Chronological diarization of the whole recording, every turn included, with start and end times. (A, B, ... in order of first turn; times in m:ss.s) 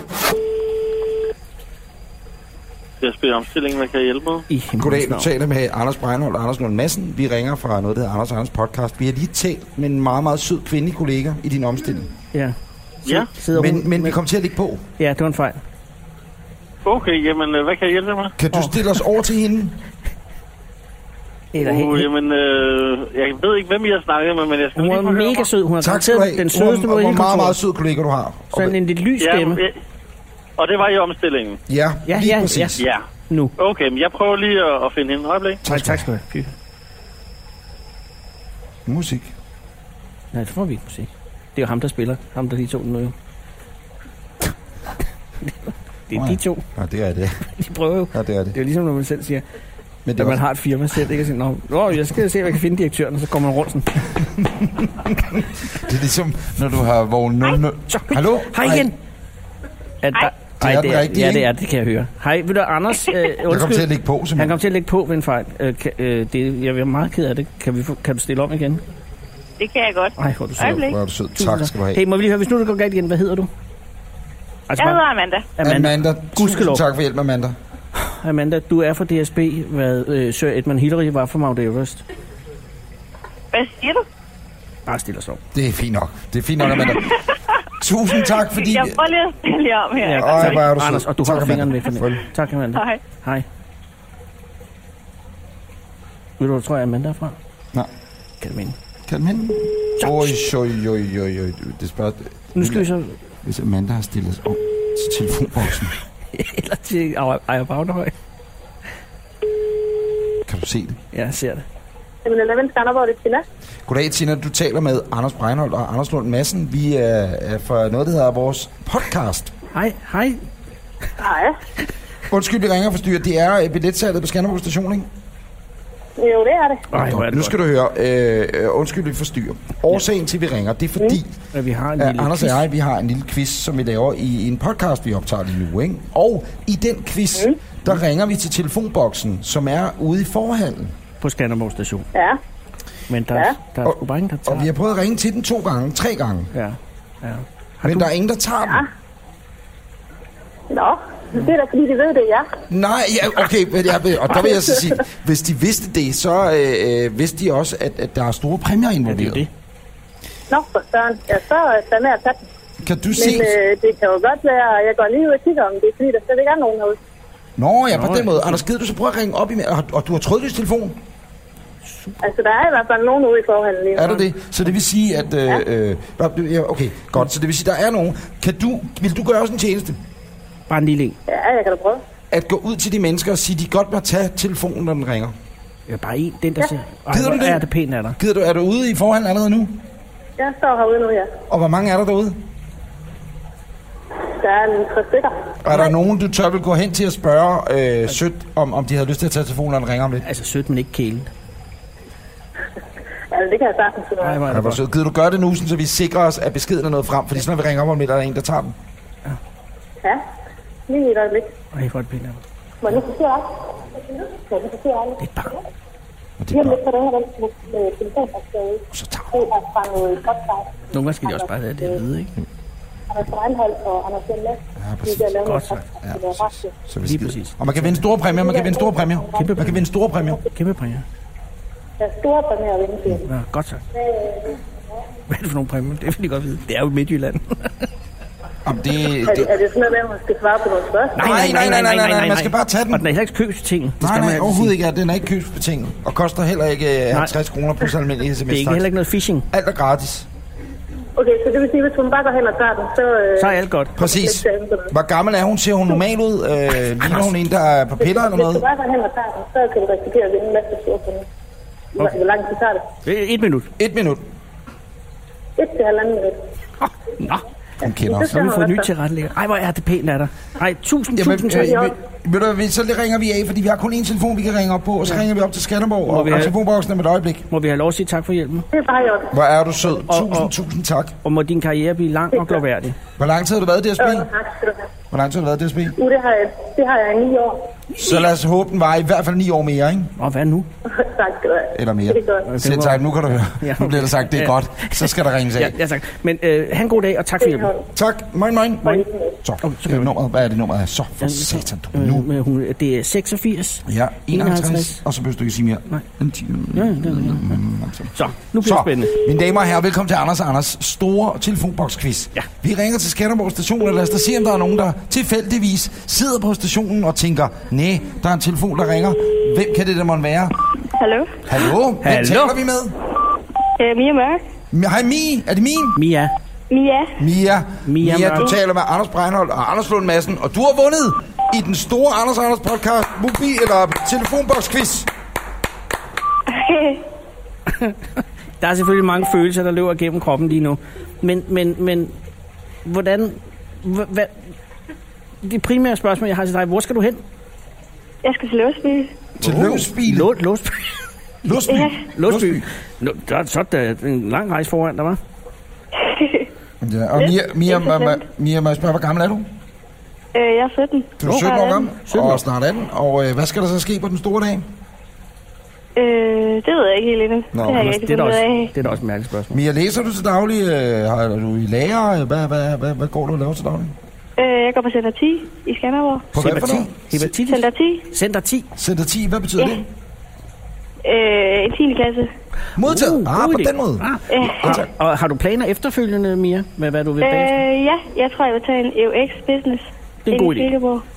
0:03.0-0:04.4 A
0:04.5-0:05.3 B
0:04.8-0:12.1 C
0:13.1-0:14.2 B
0:13.5-0:14.8 C
0:15.0-0:15.6 B
0:16.8-0:18.3 A
0:18.4-0:19.8 C
0:21.5-0:22.1 B
0:21.6-0:25.5 A
0:24.8-0:27.6 B
0:25.8-0:28.7 C
0:28.5-0:29.6 B
0:29.2-0:29.8 A
0:30.6-0:31.6 A
0:31.7-0:32.9 C
0:32.0-0:33.5 B
0:32.8-0:33.0 A
0:33.6-0:35.6 A
0:35.6-0:36.0 C
0:35.7-0:36.5 B
0:38.8-0:39.3 C
0:40.3-0:43.1 B
0:45.4-0:46.6 B
0:46.1-0:47.4 C
0:47.5-0:49.4 B
0:48.1-0:48.6 C
0:50.0-0:50.4 C
0:50.2-0:54.1 B
0:54.2-0:58.9 C
0:57.9-0:58.9 B
1:00.0-1:08.8 B
1:00.6-1:01.5 C
1:03.4-1:04.6 C
1:09.6-1:10.8 D
1:10.2-1:13.5 B
1:10.6-1:12.0 C
1:14.7-1:15.0 B
1:14.8-1:15.5 D
1:15.6-1:16.8 B
1:15.6-1:17.6 C
1:17.9-1:22.0 B
1:23.5-1:24.0 D
1:24.9-1:25.4 B
1:25.5-1:27.1 C
1:26.8-1:27.2 D
1:27.8-1:29.0 C
1:28.3-1:30.7 D
1:30.0-1:33.4 B
1:30.1-1:32.2 C
1:32.7-1:33.0 D
1:36.4-1:37.4 B
1:38.4-1:38.8 B
1:39.1-1:42.9 C
1:40.0-1:40.3 B
1:42.5-1:43.2 B
1:43.4-1:45.9 C
1:46.3-1:48.1 B
1:50.4-1:51.0 C
1:51.1-1:51.6 B
1:52.2-1:53.4 E
1:53.8-1:59.5 C
1:59.7-2:00.4 B
2:01.2-2:01.6 E
2:02.3-2:05.1 C
2:06.2-2:06.9 E
2:06.9-2:07.5 B
2:06.9-2:11.3 C
2:11.5-2:12.7 B
2:12.0-2:20.9 C
2:21.2-2:22.1 B
2:22.1-2:22.4 E
2:23.1-2:24.7 B
2:23.8-2:26.5 C
2:26.5-2:28.1 B
2:27.8-2:28.8 C
2:30.7-2:32.5 E
2:32.7-2:39.4 C
2:34.4-2:34.9 E
2:39.0-2:39.5 B
2:40.5-2:42.4 E
2:42.8-2:43.6 C
2:43.1-2:47.0 E
2:47.6-2:51.0 C
2:47.9-2:48.6 B
2:51.9-2:52.2 B
2:52.2-2:54.2 E
2:53.9-3:00.0 C
3:00.7-3:01.2 B
3:01.3-3:02.0 E
3:02.3-3:05.3 C
3:05.9-3:08.2 B
3:07.1-3:07.6 C
3:08.2-3:09.8 C
3:10.4-3:11.3 E
3:11.5-3:12.4 C
3:14.2-3:15.8 E
3:15.6-3:20.2 C
3:20.2-3:21.3 B
3:23.3-3:24.4 E
3:24.2-3:24.8 B
3:24.4-3:28.8 C
3:30.9-3:31.5 E
3:31.7-3:32.4 B
3:32.8-3:35.6 E
3:35.2-3:35.5 B
3:36.4-3:36.8 C
3:36.5-3:42.0 E
3:38.9-3:39.5 C
3:40.9-3:42.3 B
3:43.1-3:46.7 E
3:44.8-3:45.4 C
3:45.4-3:45.8 B
3:46.0-3:50.4 C
3:47.0-3:48.0 B
3:48.2-3:49.6 E
3:49.3-3:49.9 B
3:50.5-3:51.0 B
3:52.0-3:53.2 E
3:53.2-3:53.8 B
3:54.0-3:54.5 E
3:55.3-3:57.9 B
3:58.6-3:59.6 C
3:59.2-4:01.4 E
4:01.1-4:04.8 B
4:01.2-4:03.1 C
4:04.0-4:08.9 C
4:08.5-4:09.4 B
4:09.5-4:10.3 C
4:11.2-4:14.9 E
4:13.4-4:14.0 B
4:14.0-4:18.6 C
4:18.0-4:21.3 E
4:22.0-4:22.8 E
4:23.0-4:23.7 B
4:23.8-4:24.2 C
4:25.6-4:26.4 E
4:26.8-4:27.4 B
4:27.8-4:28.3 C
4:27.8-4:28.9 E
4:28.2-4:31.8 B
4:31.2-4:37.5 C
4:31.5-4:31.9 E
4:36.1-4:36.5 B
4:37.5-4:38.7 B
4:38.7-4:39.3 E
4:39.3-4:41.1 C
4:40.0-4:40.5 B
4:41.2-4:43.0 B
4:42.3-4:42.6 E
4:43.2-4:44.3 C
4:44.0-4:44.9 E
4:45.1-4:46.0 C
4:45.9-4:47.6 E
4:48.0-4:48.2 B
4:48.0-4:50.1 C
4:50.2-4:50.7 B
4:50.9-4:52.5 E
4:51.7-4:55.8 C
4:52.4-4:53.0 B
4:53.6-4:57.7 B
4:57.4-4:57.8 E
4:57.9-5:02.3 C
4:58.8-4:59.3 E
4:59.6-5:00.1 B
5:01.2-5:05.0 B
5:03.8-5:20.6 C
5:06.7-5:07.6 B
5:08.1-5:09.1 B
5:20.9-5:21.6 F
5:21.4-5:23.0 C
5:22.0-5:22.6 B
5:23.8-5:24.4 F
5:24.7-5:26.0 C
5:25.9-5:26.3 B
5:26.7-5:27.2 F
5:27.2-5:35.1 C
5:27.8-5:28.5 B
5:36.5-5:37.1 F
5:37.7-5:38.0 B
5:38.6-5:42.1 B
5:42.8-5:44.3 B
5:45.4-5:47.2 B
5:48.2-5:49.1 F
5:49.4-5:50.3 C
5:49.4-5:50.9 B
5:51.4-5:52.6 C
5:51.6-5:52.0 F
5:52.0-5:55.2 B
5:56.0-5:56.5 F
5:56.8-5:59.4 C
5:57.2-5:58.2 F
6:00.3-6:01.9 F
6:01.2-6:04.7 C
6:01.2-6:02.4 B
6:06.0-6:08.7 F
6:07.5-6:07.9 C
6:07.6-6:09.6 B
6:09.5-6:13.9 C
6:14.4-6:16.3 F
6:16.3-6:17.3 C
6:16.3-6:18.7 B
6:17.4-6:18.0 F
6:18.8-6:19.9 C
6:21.0-6:22.3 F
6:22.8-6:24.9 C
6:22.8-6:27.6 B
6:24.3-6:24.8 F
6:27.2-6:31.0 F
6:30.2-6:30.7 B